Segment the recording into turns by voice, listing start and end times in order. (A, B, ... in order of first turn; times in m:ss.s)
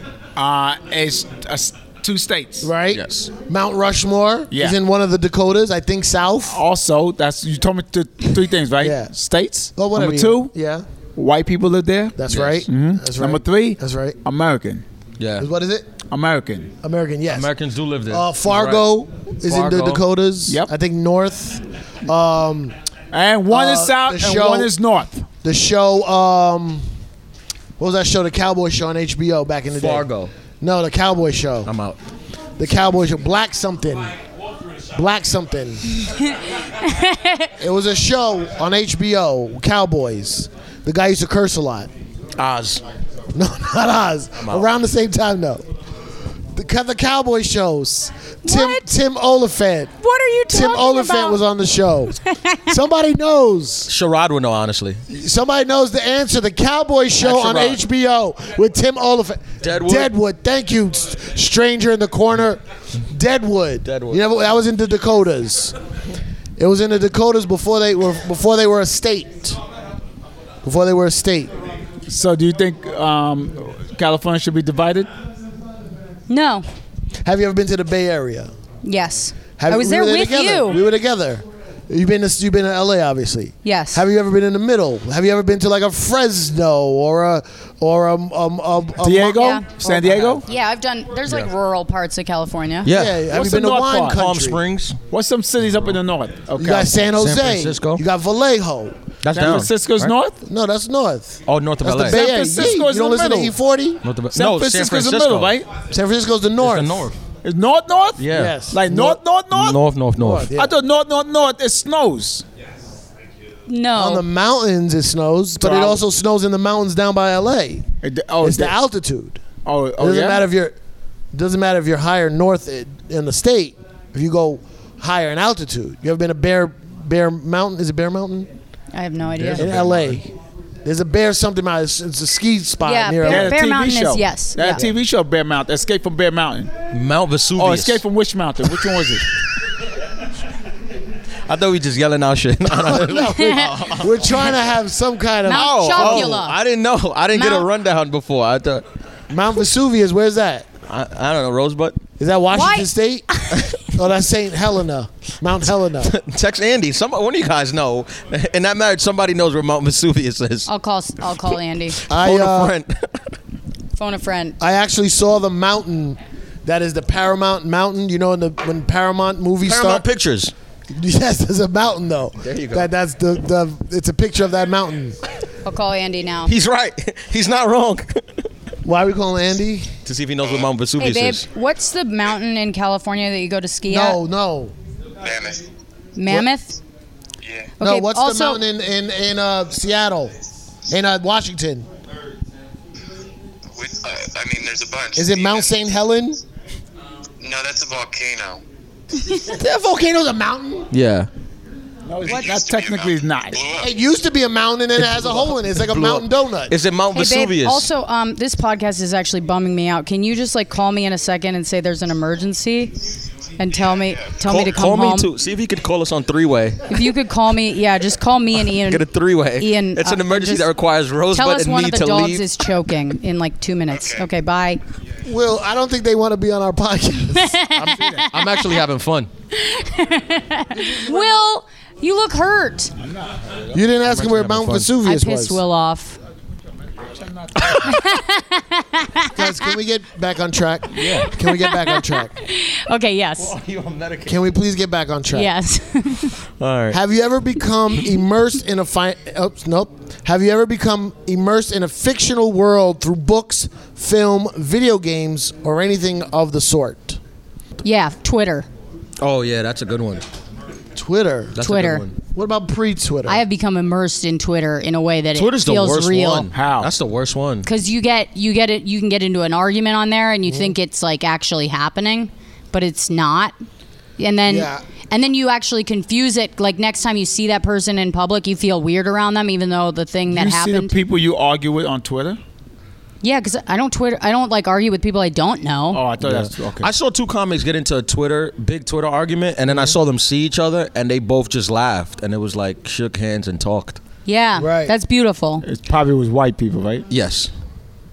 0:00.4-0:02.7 A
0:02.6-0:06.6 B
0:02.9-0:03.3 C
0:06.5-0:10.5 A
0:08.8-0:09.1 B
0:09.8-0:10.8 B
0:11.2-0:14.8 A
0:12.2-0:14.2 B
0:12.3-0:12.6 C
0:15.2-0:15.5 C
0:15.4-0:15.9 B
0:16.1-0:16.7 A
0:16.8-0:17.5 B
0:17.3-0:18.9 C
0:18.1-0:22.7 B
0:19.4-0:20.0 C
0:23.1-0:25.3 A
0:23.5-0:24.7 B
0:25.4-0:26.9 B
0:27.8-0:30.1 B
0:29.7-0:30.3 C
0:30.6-0:31.7 B
0:31.6-0:32.0 C
0:32.6-0:34.1 B
0:34.9-0:35.9 B
0:36.8-0:37.5 D
0:37.6-0:41.9 B
0:42.4-0:42.8 C
0:43.3-0:45.6 B
0:44.4-0:44.7 C
0:46.5-0:49.9 B
0:48.4-0:48.9 D
0:50.0-0:51.4 D
0:50.5-0:53.9 B
0:52.3-0:52.6 D
0:53.9-0:55.0 C
0:55.1-1:05.8 B
0:57.2-0:57.8 C
0:59.6-1:00.1 C
1:03.8-1:04.2 C
1:06.6-1:09.6 B
1:10.6-1:11.5 B
1:12.1-1:15.1 A
1:16.3-1:16.6 D
1:17.2-1:18.5 B
1:18.8-1:20.8 D
1:19.6-1:30.4 B
1:23.6-1:24.0 D
1:29.0-1:30.4 A
1:29.4-1:29.7 D
1:30.4-1:32.9 D
1:32.8-1:33.2 C
1:32.8-1:34.6 B
1:33.3-1:34.2 A
1:34.1-1:35.0 C
1:35.1-1:37.0 A
1:36.6-1:39.0 B
1:37.2-1:38.0 C
1:39.2-1:40.1 C
1:39.3-1:40.4 A
1:40.4-1:44.0 B
1:41.4-1:42.2 C
1:42.0-1:43.5 A
1:44.0-1:45.5 C
1:44.3-1:45.7 A
1:45.9-1:47.1 B
1:46.6-1:47.2 C
1:47.4-1:49.8 A
1:48.2-1:48.6 C
1:48.3-1:49.2 B
1:49.5-1:50.5 C
1:50.2-1:50.7 B
1:50.5-1:52.4 A
1:53.7-1:54.2 D
1:53.9-1:57.8 B
1:55.6-1:56.0 A
1:58.0-1:58.8 A
1:58.4-1:59.4 B
1:59.6-2:00.4 A
2:00.0-2:00.7 B
2:01.3-2:08.5 B
2:08.9-2:09.7 D
2:09.4-2:10.2 C
2:09.6-2:10.3 B
2:10.8-2:13.6 B
2:12.8-2:14.8 D
2:13.2-2:16.7 A
2:16.9-2:18.0 C
2:17.6-2:19.2 A
2:21.4-2:24.5 C
2:22.7-2:26.4 B
2:23.2-2:23.7 D
2:25.4-2:26.6 D
2:25.5-2:28.8 C
2:27.3-2:27.7 D
2:29.3-2:30.7 B
2:30.9-2:32.0 C
2:32.2-2:36.1 B
2:32.5-2:33.6 D
2:36.0-2:40.7 C
2:40.7-2:42.0 D
2:42.0-2:43.3 C
2:42.1-2:42.7 B
2:43.9-2:44.6 D
2:44.6-2:50.0 B
2:49.6-2:50.5 C
2:50.9-2:55.2 B
2:52.4-2:52.9 C
2:55.6-2:56.5 D
2:56.4-2:58.4 C
2:58.8-2:59.9 B
3:00.0-3:01.4 C
3:00.4-3:00.7 E
3:01.0-3:04.2 D
3:03.9-3:04.7 B
3:05.2-3:05.6 E
3:06.2-3:06.8 D
3:07.4-3:07.7 E
3:07.8-3:08.6 D
3:07.8-3:10.3 B
3:10.9-3:11.9 B
3:13.7-3:15.8 E
3:15.2-3:16.4 B
3:17.4-3:18.6 E
3:19.4-3:20.9 B
3:20.9-3:21.3 C
3:22.1-3:23.6 A
3:22.2-3:23.9 E
3:23.8-3:26.7 B
3:25.0-3:27.9 C
3:27.1-3:32.9 D
3:33.6-3:35.3 D
3:34.4-3:37.0 C
3:36.9-3:40.7 D
3:38.6-3:42.4 C
3:41.3-3:44.8 D
3:43.9-3:44.3 E
3:45.2-3:48.2 B
3:47.3-3:48.8 D
3:48.3-3:49.3 C
3:49.5-3:52.9 D
3:50.9-3:51.1 B
3:53.7-3:55.6 B
3:54.0-3:54.9 C
3:55.0-3:56.2 D
3:57.4-3:57.6 A
3:57.6-3:57.9 C
3:57.8-3:59.5 D
3:59.3-4:02.3 B
4:01.0-4:03.5 D
4:03.4-4:04.5 C
4:04.3-4:05.5 B
4:05.3-4:06.4 D
4:06.6-4:07.0 C
4:06.9-4:17.2 B
4:17.8-4:18.7 D
4:19.2-4:20.2 C
4:20.9-4:21.6 B
4:21.5-4:22.2 C
4:21.6-4:22.0 D
4:22.2-4:23.4 B
4:23.2-4:26.5 D
4:25.3-4:27.7 C
4:26.5-4:26.9 A
4:27.6-4:33.5 D
4:30.4-4:30.7 B
4:34.2-4:41.0 D
4:34.5-4:34.8 B
4:40.3-4:42.4 A
4:43.2-4:46.0 D
4:45.9-4:46.9 A
4:46.2-4:54.0 C
4:54.2-4:55.6 D
4:54.6-4:54.9 B
4:55.6-4:57.0 A
4:57.1-4:57.5 C